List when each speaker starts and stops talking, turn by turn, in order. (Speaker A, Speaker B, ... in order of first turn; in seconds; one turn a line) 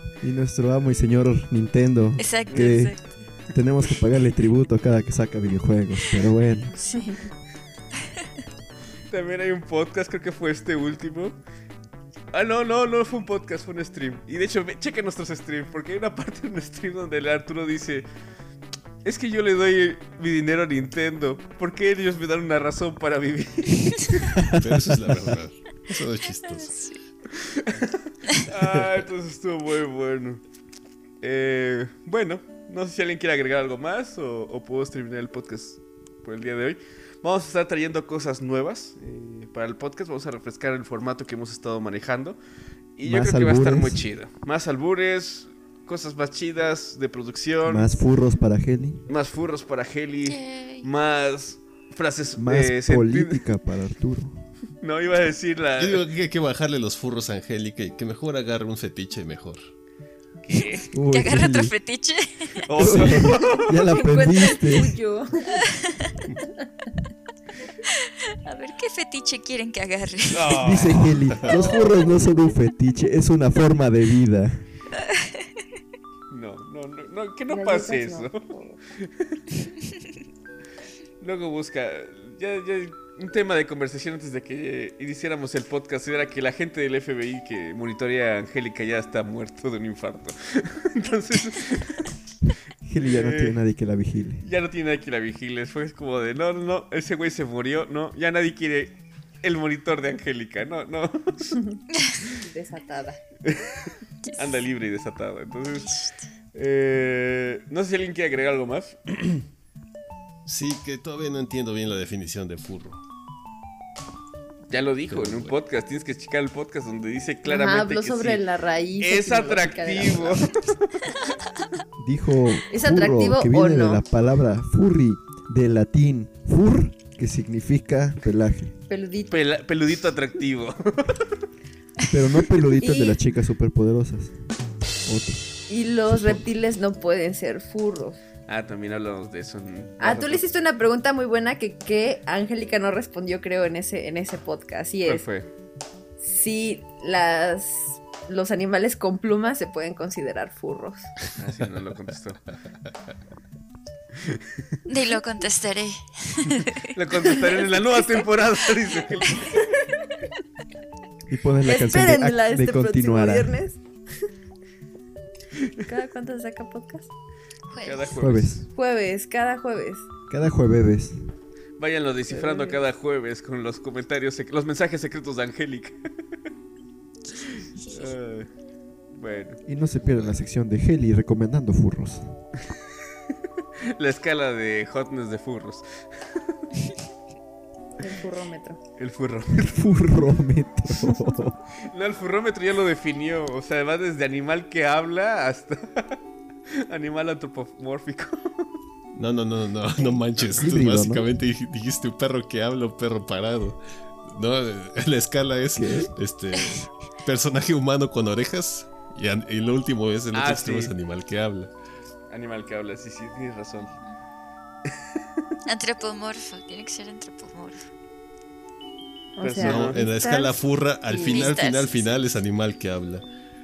Speaker A: 0.2-6.7
Speaker B: 2.2-3.3
Speaker C: 2.5-2.9
Speaker D: 6.8-7.2
Speaker C: 9.1-11.4
Speaker C: 12.3-18.1
Speaker C: 19.0-24.4
Speaker A: 24.4-24.9
Speaker E: 24.6-26.8
Speaker B: 26.4-27.0
Speaker C: 27.5-27.8
Speaker C: 28.4-30.4
Speaker C: 31.2-42.4
Speaker C: 43.0-47.9
Speaker A: 43.0-44.0
Speaker A: 47.6-49.1
Speaker C: 49.1-53.4
Speaker B: 50.2-50.9
Speaker A: 52.4-54.4
Speaker C: 54.8-56.0
Speaker E: 55.8-59.7
Speaker C: 60.4-60.9
Speaker A: 60.9-61.7
Speaker B: 61.0-63.0
Speaker C: 62.7-63.8
Speaker A: 62.8-64.9
Speaker D: 63.9-65.6
Speaker B: 65.7-66.2
Speaker B: 67.9-70.7
Speaker C: 70.3-71.1
Speaker A: 70.5-74.7
Speaker D: 71.5-72.1
Speaker B: 75.0-75.5
Speaker C: 76.3-78.4
Speaker D: 77.5-78.8
Speaker C: 79.0-79.4
Speaker C: 81.2-92.0
Speaker A: 92.8-94.4
Speaker C: 93.0-93.6
Speaker C: 94.4-101.6
Speaker D: 102.3-103.2
Speaker C: 103.5-103.8
Speaker B: 104.2-104.6
Speaker C: 104.4-105.9
Speaker B: 105.7-106.2
Speaker C: 106.5-109.4
Speaker E: 110.5-113.0
Speaker C: 114.7-118.4
Speaker E: 115.1-115.6
Speaker D: 117.4-120.4
Speaker C: 119.0-121.0
Speaker A: 122.0-128.8
Speaker D: 122.7-124.0
Speaker D: 128.9-129.3
Speaker C: 129.3-131.4
Speaker A: 132.1-134.3
Speaker D: 132.8-133.2
Speaker A: 135.1-135.4
Speaker D: 135.7-138.2
Speaker A: 136.1-136.4
Speaker C: 138.5-140.4
Speaker D: 140.0-145.2
Speaker C: 145.0-145.5
Speaker D: 146.2-151.1
Speaker C: 151.3-152.4
Speaker B: 154.8-156.9
Speaker C: 156.9-159.6
Speaker A: 161.3-163.6
Speaker D: 161.6-163.8
Speaker D: 165.8-167.1
Speaker B: 167.7-168.1
Speaker C: 167.8-168.7
Speaker A: 168.1-168.6
Speaker D: 168.7-170.1
Speaker A: 170.3-171.2
Speaker C: 171.8-176.0
Speaker D: 172.3-172.8
Speaker C: 177.9-178.5
Speaker C: 179.1-179.6
Speaker A: 179.7-182.3
Speaker C: 183.8-186.6
Speaker D: 188.0-188.8
Speaker C: 189.0-189.8
Speaker A: 189.6-191.6
Speaker C: 191.8-196.2
Speaker C: 196.7-198.6
Speaker E: 199.1-211.7
Speaker A: 200.6-201.3
Speaker A: 205.8-206.1
Speaker C: 210.3-210.9
Speaker C: 212.3-213.9
Speaker B: 215.7-217.8
Speaker D: 219.3-221.5
Speaker C: 219.4-220.0
Speaker E: 219.6-223.2
Speaker B: 221.1-222.2